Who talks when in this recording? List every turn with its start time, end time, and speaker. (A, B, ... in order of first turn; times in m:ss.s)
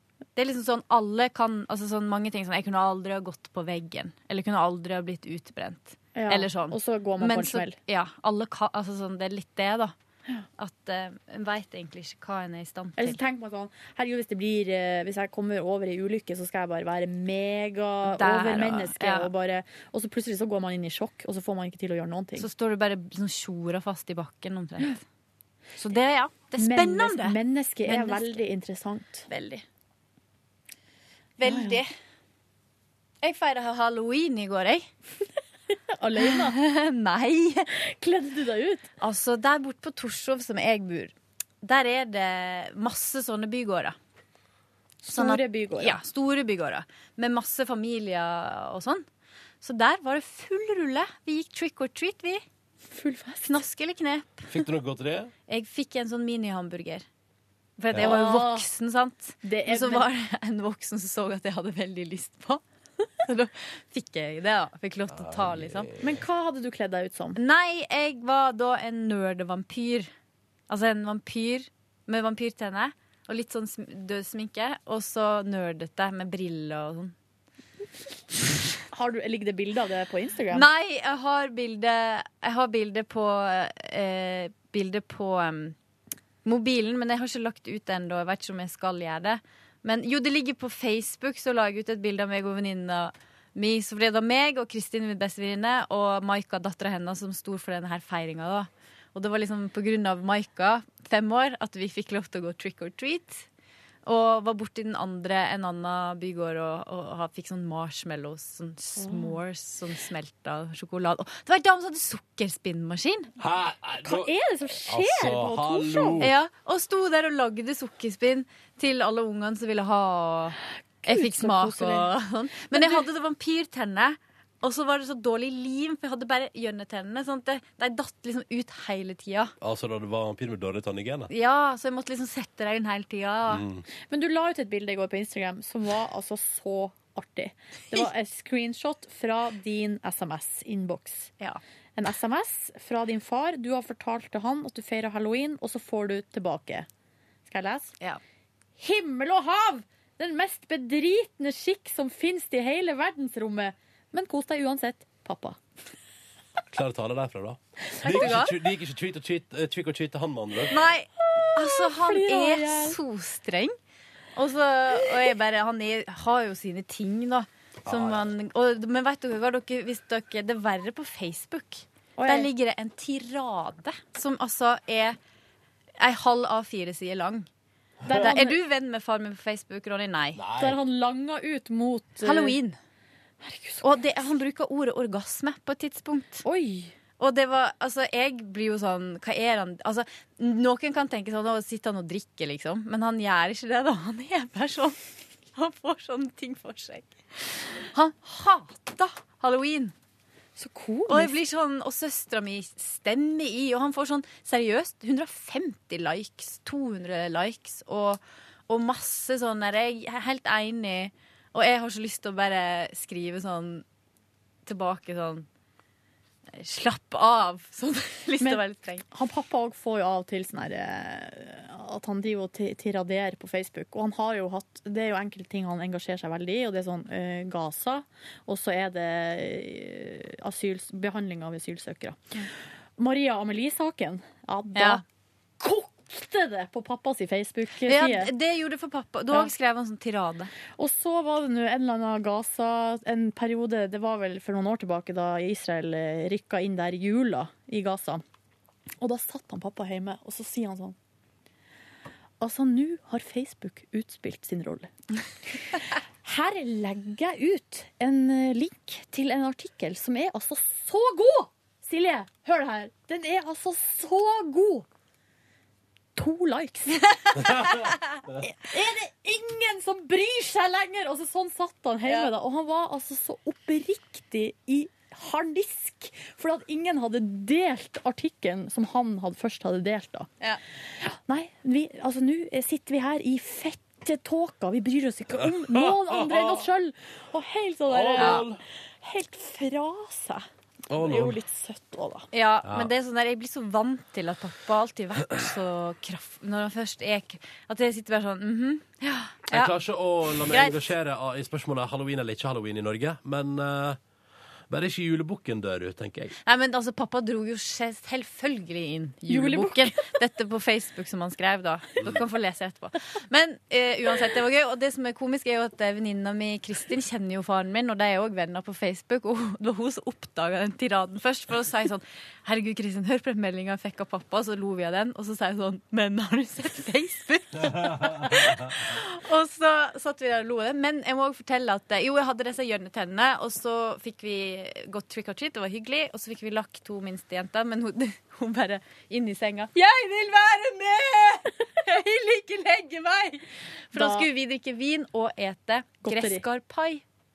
0:00.4-0:09.9 A
0:06.1-0:07.8 B
0:10.6-0:13.2 A
0:13.0-0:22.5 B
0:18.0-0:19.3 A
0:22.4-0:25.0 A
0:25.8-0:28.4 A
0:26.6-0:29.2 B
0:29.3-0:29.6 A
0:31.4-0:31.9 A
0:31.4-0:31.8 B
0:33.2-0:34.8 A
0:35.9-0:36.6 B
0:36.2-0:37.7 A
0:37.8-0:38.9 B
0:39.0-0:44.0 A
0:45.0-0:46.0 B
0:45.1-0:49.0 A
0:49.6-0:52.4 A
0:52.9-0:53.6 B
0:53.4-0:54.5 A
0:54.5-0:55.3 C
0:55.5-0:57.0 A
0:57.8-1:02.6 A
0:58.0-0:58.7 B
0:59.4-1:00.1 B
1:03.2-1:05.9 A
1:05.1-1:06.1 C
1:06.0-1:07.4 B
1:07.3-1:10.1 A
1:10.7-1:17.1 A
1:18.9-1:20.7 B
1:20.5-1:25.7 A
1:26.4-1:43.4 A
1:44.0-1:53.3 A
1:49.0-1:49.4 B
1:53.4-1:54.3 C
1:54.0-1:56.3 B
1:54.8-1:56.3 C
1:56.2-2:09.5 A
2:01.0-2:02.1 B
2:02.7-2:03.0 B
2:09.6-2:11.3 C
2:11.3-2:13.6 A
2:13.5-2:13.8 C
2:14.1-2:21.3 B
2:22.0-2:26.9 B
2:27.5-2:27.9 B
2:28.8-2:35.6 B
2:36.7-2:40.8 C
2:37.9-2:38.4 B
2:38.0-2:38.6 A
2:40.7-2:43.7 A
2:41.3-2:43.0 B
2:44.3-2:55.2 A
2:47.8-2:48.2 C
2:52.2-2:52.5 B
2:56.0-2:57.4 A
2:58.1-2:58.6 B
2:58.1-3:00.4 A
3:00.4-3:00.8 C
3:00.6-3:02.6 B
3:02.2-3:02.8 A
3:03.4-3:04.0 B
3:03.8-3:06.4 A
3:06.4-3:06.9 B
3:07.2-3:15.0 A
3:15.5-3:19.9 A
3:20.6-3:21.3 B
3:21.1-3:33.8 A
3:34.6-3:35.5 A
3:36.6-3:39.0 A
3:38.4-3:52.2 B
3:53.0-3:55.0 B
3:54.7-3:55.0 A
3:55.6-3:58.3 B
3:57.8-4:00.5 A
4:00.8-4:08.2 B
4:09.0-4:10.9 B
4:12.4-4:14.9 B
4:15.5-4:24.8 B
4:26.2-4:27.8 B
4:28.4-4:40.3 B
4:32.0-4:32.3 A
4:41.0-4:48.5 B
4:45.4-4:46.7 C
4:47.9-4:48.6 C
4:48.2-4:48.4 A
4:49.0-4:52.3 B
4:50.9-4:51.4 C
4:52.3-4:59.7 A
4:52.6-4:52.9 C
4:59.5-5:04.0 C
5:00.4-5:00.9 A
5:04.7-5:06.4 C
5:06.4-5:47.0 A
5:09.3-5:10.2 B
5:27.6-5:28.8 C
5:43.9-5:44.3 B
5:46.0-5:46.4 B